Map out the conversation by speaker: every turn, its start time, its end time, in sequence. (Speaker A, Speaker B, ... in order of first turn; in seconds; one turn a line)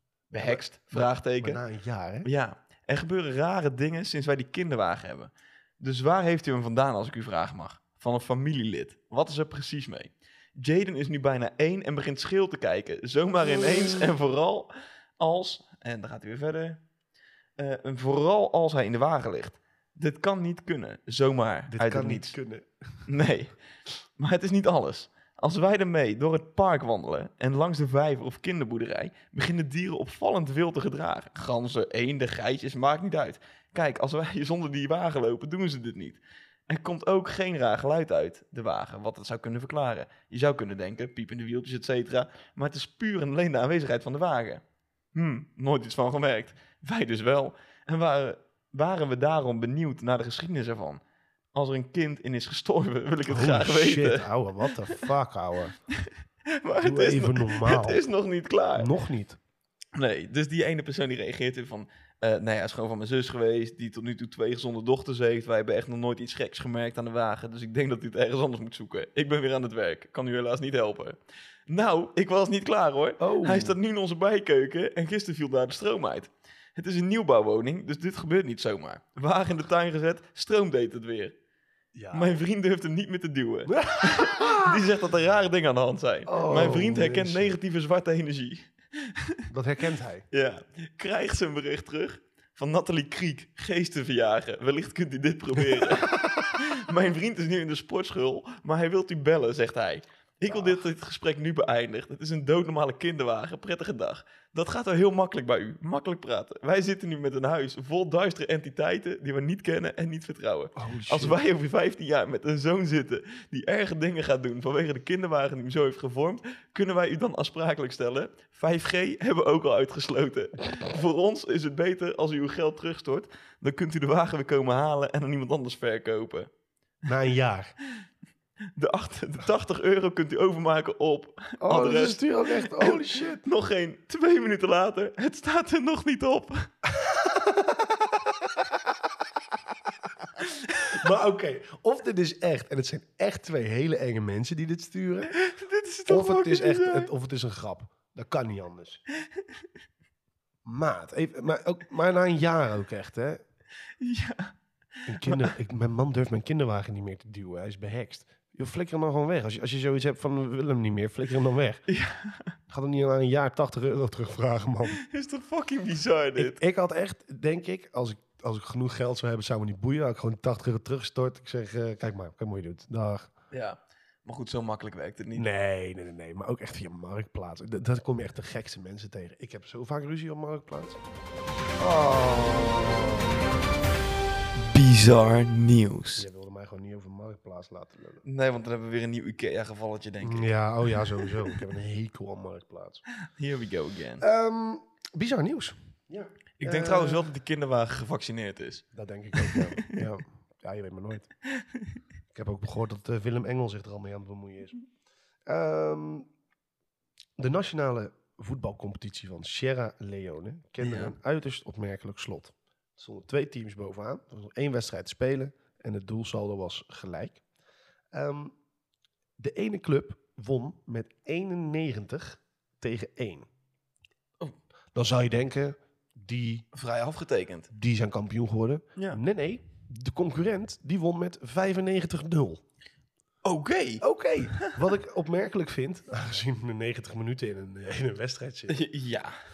Speaker A: 0.3-1.6
Speaker B: 0.3-2.3
Speaker A: 2.2-16.8
Speaker A: 17.6-22.4
Speaker B: 21.7-22.7
Speaker A: 23.1-23.6
Speaker A: 24.2-44.6
Speaker A: 45.1-51.0
Speaker A: 51.5-54.3
Speaker B: 53.3-55.8
Speaker A: 56.5-58.9
Speaker B: 56.8-58.0
Speaker B: 58.8-59.4
Speaker A: 60.0-81.4
Speaker B: 73.2-73.8
Speaker B: 81.9-82.4
Speaker A: 82.1-89.4
Speaker B: 83.7-84.8
Speaker B: 86.3-87.5
Speaker B: 89.5-90.3
Speaker A: 90.3-126.5
Speaker B: 95.7-96.3
Speaker B: 100.5-100.8
Speaker B: 110.8-111.4
Speaker B: 127.1-127.7
Speaker A: 128.8-136.7
Speaker B: 131.6-133.4
Speaker B: 136.9-139.1
Speaker B: 140.2-145.3
Speaker A: 145.3-147.1
Speaker B: 146.1-149.0
Speaker B: 150.7-153.4
Speaker A: 154.0-154.6
Speaker B: 155.1-161.8
Speaker A: 155.2-155.5
Speaker A: 161.9-162.5
Speaker B: 162.7-165.0
Speaker A: 165.0-166.6
Speaker B: 166.4-173.3
Speaker A: 173.5-175.5
Speaker B: 175.4-181.0
Speaker B: 181.8-183.4
Speaker A: 184.6-186.3
Speaker B: 186.2-188.2
Speaker A: 188.2-191.5
Speaker B: 190.2-193.0
Speaker A: 193.3-194.2
Speaker B: 194.2-197.3
Speaker A: 196.6-198.8
Speaker B: 198.9-201.3
Speaker A: 199.4-200.0
Speaker A: 201.6-201.8
Speaker B: 202.3-204.8
Speaker B: 205.5-206.3
Speaker B: 207.4-217.4
Speaker A: 210.8-211.1
Speaker B: 218.1-218.6
Speaker B: 219.4-223.5
Speaker B: 224.9-226.7
Speaker A: 226.7-227.7
Speaker B: 227.7-232.6
Speaker A: 233.4-234.7
Speaker B: 234.0-238.8
Speaker A: 238.7-239.4